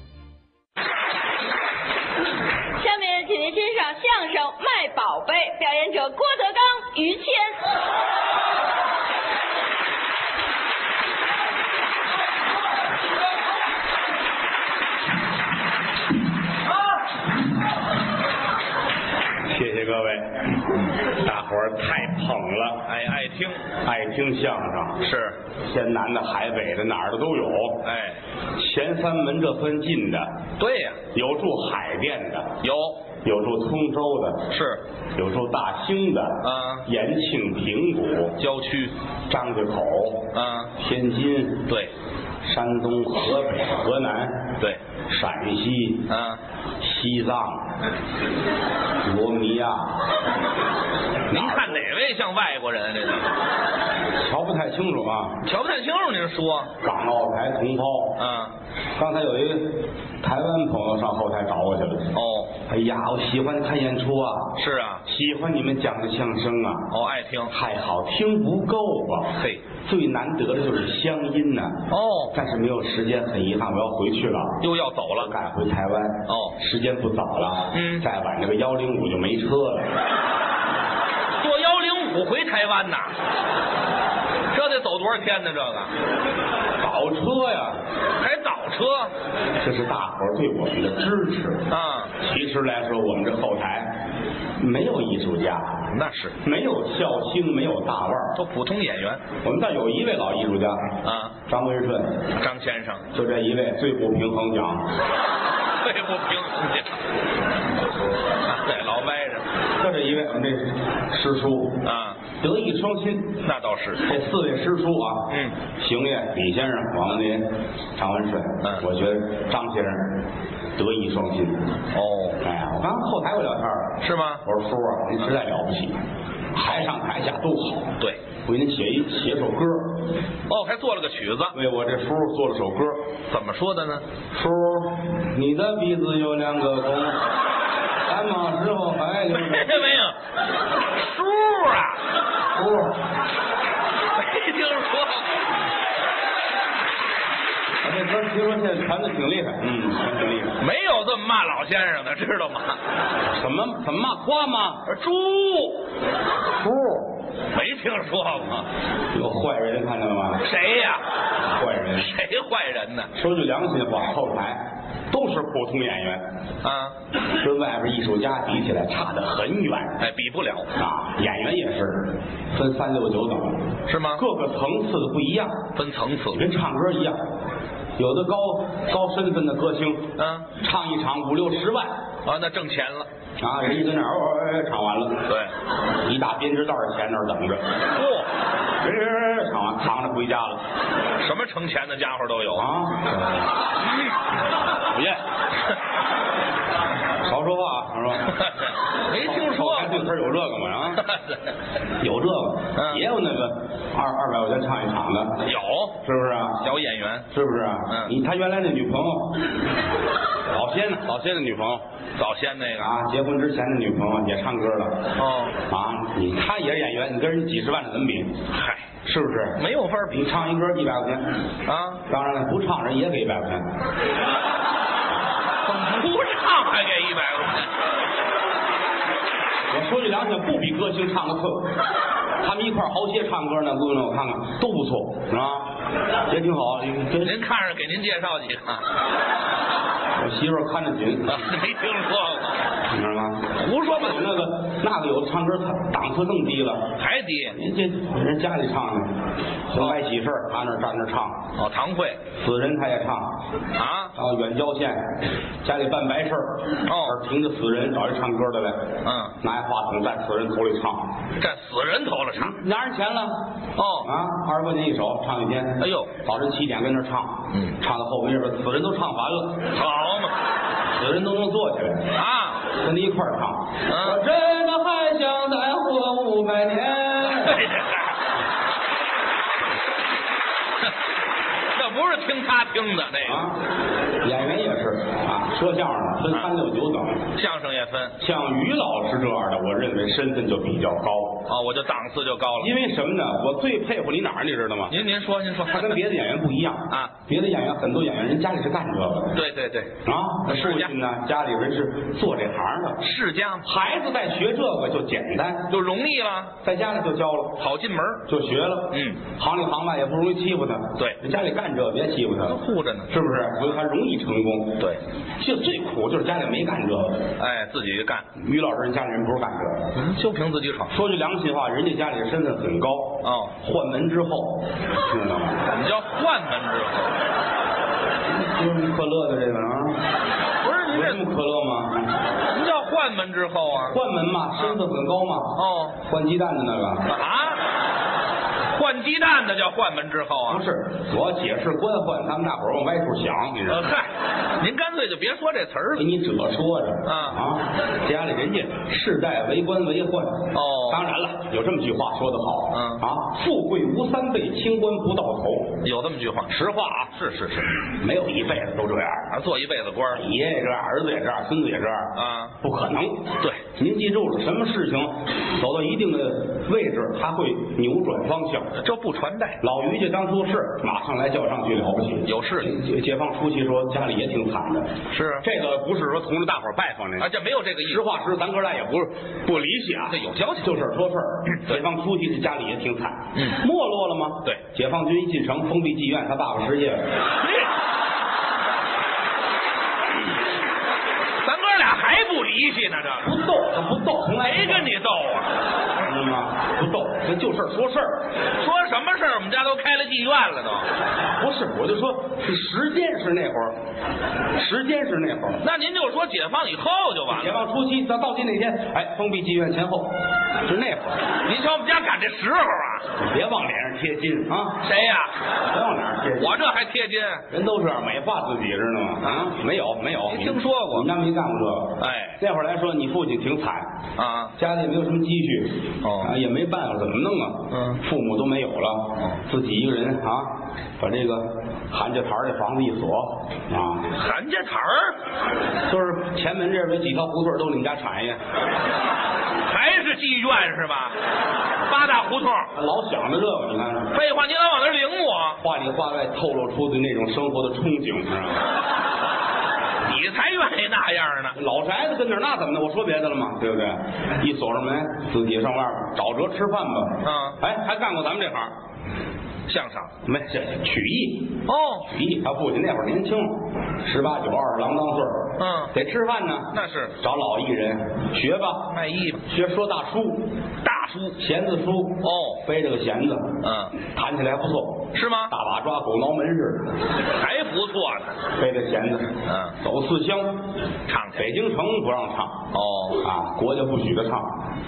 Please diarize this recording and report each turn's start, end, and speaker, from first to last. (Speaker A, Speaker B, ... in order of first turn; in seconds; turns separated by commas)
Speaker A: 2.8-7.6, Speaker B: 19.5-22.9, Speaker C: 22.8-23.6, Speaker B: 23.8-25.0, Speaker C: 25.0-25.4, Speaker B: 25.6-27.8, Speaker C: 27.8-28.2, Speaker B: 28.6-30.3, Speaker C: 30.6-31.0, Speaker B: 31.1-32.6, Speaker C: 32.6-33.0, Speaker B: 33.2-34.5, Speaker C: 34.5-34.8, Speaker B: 35.2-38.4, Speaker C: 36.4-36.9, Speaker C: 38.4-38.9, Speaker B: 39.3-41.7, Speaker C: 40.3-40.7, Speaker B: 42.4-44.5, Speaker B: 45.1-46.0, Speaker C: 46.1-46.4, Speaker B: 46.8-47.7, Speaker B: 49.0-50.0, Speaker B: 51.3-51.8, Speaker C: 51.3-53.3, Speaker B: 54.2-55.4, Speaker C: 55.4-56.7, Speaker B: 56.8-58.2, Speaker C: 58.2-58.5, Speaker B: 59.0-62.1, Speaker C: 62.1-62.5, Speaker B: 62.6-66.9, Speaker C: 64.6-65.0, Speaker C: 66.9-67.5, Speaker B: 67.5-74.6, Speaker C: 71.9-72.3, Speaker C: 74.6-75.3, Speaker B: 75.2-79.9, Speaker C: 76.3-76.6, Speaker C: 77.7-78.0, Speaker C: 81.4-83.2, Speaker C: 84.5-85.9, Speaker B: 86.8-87.8, Speaker C: 88.2-89.1, Speaker B: 89.6-91.7, Speaker C: 91.7-92.1, Speaker B: 92.2-94.0, Speaker B: 94.6-95.8, Speaker C: 95.9-96.4, Speaker B: 96.4-98.4, Speaker C: 98.4-99.2, Speaker B: 99.4-102.2, Speaker C: 101.0-101.4, Speaker C: 102.3-103.1, Speaker B: 103.1-104.9, Speaker C: 105.8-107.0, Speaker C: 108.4-109.5, Speaker B: 109.8-111.8, Speaker C: 111.8-112.2, Speaker B: 112.4-113.4, Speaker C: 113.4-114.1, Speaker B: 114.0-120.2, Speaker C: 115.3-115.6, Speaker B: 120.8-121.7, Speaker C: 121.9-122.4, Speaker B: 122.4-126.0, Speaker C: 124.0-124.4, Speaker B: 126.5-130.0, Speaker C: 130.5-131.6, Speaker B: 131.5-133.0, Speaker C: 133.3-134.1, Speaker B: 134.3-137.2, Speaker B: 138.1-139.9, Speaker C: 139.3-140.2, Speaker C: 140.9-142.0, Speaker B: 142.6-143.0, Speaker C: 144.1-145.3, Speaker B: 147.8-150.6, Speaker C: 150.6-152.8, Speaker B: 153.2-154.8, Speaker C: 154.8-155.8, Speaker B: 156.6-157.1, Speaker C: 157.5-158.7, Speaker B: 159.1-160.4, Speaker C: 160.4-161.1, Speaker B: 161.5-162.1, Speaker C: 162.0-163.1, Speaker B: 163.1-166.2, Speaker C: 166.6-166.9, Speaker B: 167.4-170.0, Speaker C: 170.0-170.7, Speaker B: 170.8-173.6, Speaker C: 173.9-174.2, Speaker B: 174.1-175.6, Speaker C: 175.8-176.4, Speaker B: 176.3-177.2, Speaker B: 178.0-181.9, Speaker C: 180.2-180.5, Speaker C: 182.2-183.1, Speaker B: 183.4-185.2, Speaker C: 185.3-185.5, Speaker B: 186.0-187.7, Speaker C: 187.9-188.3, Speaker B: 188.8-190.6, Speaker C: 191.2-192.7, Speaker B: 192.5-193.2, Speaker C: 194.9-195.8, Speaker B: 197.2-198.4, Speaker C: 198.3-200.1, Speaker B: 199.1-201.1, Speaker C: 201.0-201.4, Speaker B: 202.0-205.4, Speaker C: 202.8-203.0, Speaker C: 205.4-206.0, Speaker B: 206.0-206.6, Speaker C: 206.6-207.3, Speaker B: 207.3-209.4, Speaker B: 210.5-211.8, Speaker C: 212.2-212.9, Speaker B: 212.8-215.1, Speaker C: 215.2-215.6, Speaker B: 215.7-218.4, Speaker C: 218.5-218.8, Speaker B: 219.0-221.3, Speaker C: 219.6-220.3, Speaker C: 221.7-222.0, Speaker B: 222.1-223.7, Speaker C: 225.6-227.7, Speaker B: 229.7-231.7, Speaker B: 232.4-235.7, Speaker B: 236.3-237.4, Speaker C: 237.2-238.9, Speaker B: 240.2-241.4, Speaker C: 241.3-242.6, Speaker B: 242.9-246.9, Speaker C: 243.6-244.3, Speaker C: 247.0-247.6, Speaker B: 247.5-249.1, Speaker B: 249.7-251.4, Speaker C: 251.6-252.2, Speaker B: 252.3-253.3, Speaker C: 253.8-254.1, Speaker B: 254.2-261.1, Speaker C: 256.9-257.2, Speaker C: 259.0-259.3, Speaker C: 261.4-262.6, Speaker B: 262.4-263.4, Speaker C: 263.8-264.1, Speaker B: 264.0-269.7, Speaker C: 265.8-266.1, Speaker C: 269.7-270.3, Speaker B: 270.9-272.1, Speaker C: 272.1-272.6, Speaker B: 272.8-277.6, Speaker C: 273.9-274.2, Speaker C: 277.4-278.1, Speaker C: 281.7-283.5, Speaker B: 283.2-283.6, Speaker B: 284.2-287.3, Speaker C: 287.4-288.1, Speaker B: 288.2-291.4, Speaker C: 291.5-292.8, Speaker B: 292.6-295.0, Speaker C: 294.9-296.0, Speaker B: 295.7-299.3, Speaker C: 299.3-300.9, Speaker B: 300.0-303.0, Speaker C: 303.0-303.7, Speaker B: 303.6-305.7, Speaker C: 305.7-306.6, Speaker B: 306.6-307.6, Speaker C: 307.6-308.2, Speaker B: 308.2-314.8, Speaker C: 308.9-309.2, Speaker C: 312.4-313.1, Speaker B: 315.4-317.3, Speaker C: 317.4-318.3, Speaker B: 318.3-319.9, Speaker C: 319.9-320.9, Speaker B: 320.9-325.6, Speaker C: 323.2-323.5, Speaker C: 325.6-327.2, Speaker B: 328.3-330.0, Speaker C: 330.6-331.2, Speaker B: 330.9-332.1, Speaker C: 332.4-334.0, Speaker B: 333.9-337.1, Speaker C: 335.6-336.0, Speaker C: 337.1-337.6, Speaker C: 338.7-340.6, Speaker B: 340.5-343.9, Speaker C: 343.7-346.1, Speaker B: 346.0-355.8, Speaker C: 347.1-347.4, Speaker C: 350.5-351.0, Speaker C: 352.7-353.0, Speaker C: 355.8-357.7, Speaker B: 356.5-357.1, Speaker B: 357.8-359.3, Speaker C: 359.3-360.2, Speaker B: 360.1-368.8, Speaker C: 362.1-362.5, Speaker C: 368.8-369.6, Speaker B: 369.6-374.9, Speaker C: 372.3-372.7, Speaker C: 375.1-375.4, Speaker B: 375.4-387.1, Speaker C: 377.2-378.0, Speaker C: 380.1-380.7, Speaker C: 387.4-387.7, Speaker C: 391.4-393.3, Speaker B: 393.2-394.9, Speaker C: 394.4-395.5, Speaker B: 396.0-398.2, Speaker C: 398.6-400.9, Speaker B: 401.4-403.8, Speaker B: 404.6-405.6, Speaker C: 405.6-407.6, Speaker B: 407.3-411.3, Speaker C: 411.4-413.1, Speaker B: 413.2-414.8, Speaker C: 414.8-415.3, Speaker B: 415.7-416.6, Speaker C: 416.4-417.5, Speaker B: 417.5-423.9, Speaker C: 420.3-421.1, Speaker C: 422.0-422.4, Speaker C: 424.2-424.5, Speaker B: 424.6-434.1, Speaker C: 426.0-426.3, Speaker C: 427.7-428.0, Speaker C: 434.1-435.2, Speaker B: 435.9-438.4, Speaker C: 439.7-441.2, Speaker C: 441.9-442.7, Speaker B: 442.7-444.1, Speaker C: 444.1-445.6, Speaker B: 445.6-448.6, Speaker C: 450.0-451.6, Speaker B: 451.6-458.7, Speaker C: 457.2-457.6, Speaker C: 459.7-460.1, Speaker B: 460.2-468.9, Speaker C: 461.7-462.1, Speaker C: 465.6-465.9, Speaker C: 466.7-467.1, Speaker C: 468.9-469.4, Speaker B: 469.4-470.5, Speaker C: 470.8-471.4, Speaker B: 471.3-476.9, Speaker C: 472.2-472.6, Speaker C: 473.6-473.9, Speaker C: 475.1-475.5, Speaker C: 477.4-478.4, Speaker B: 478.6-480.6, Speaker C: 479.4-479.8, Speaker C: 481.1-481.5, Speaker B: 481.4-484.6, Speaker C: 482.7-483.2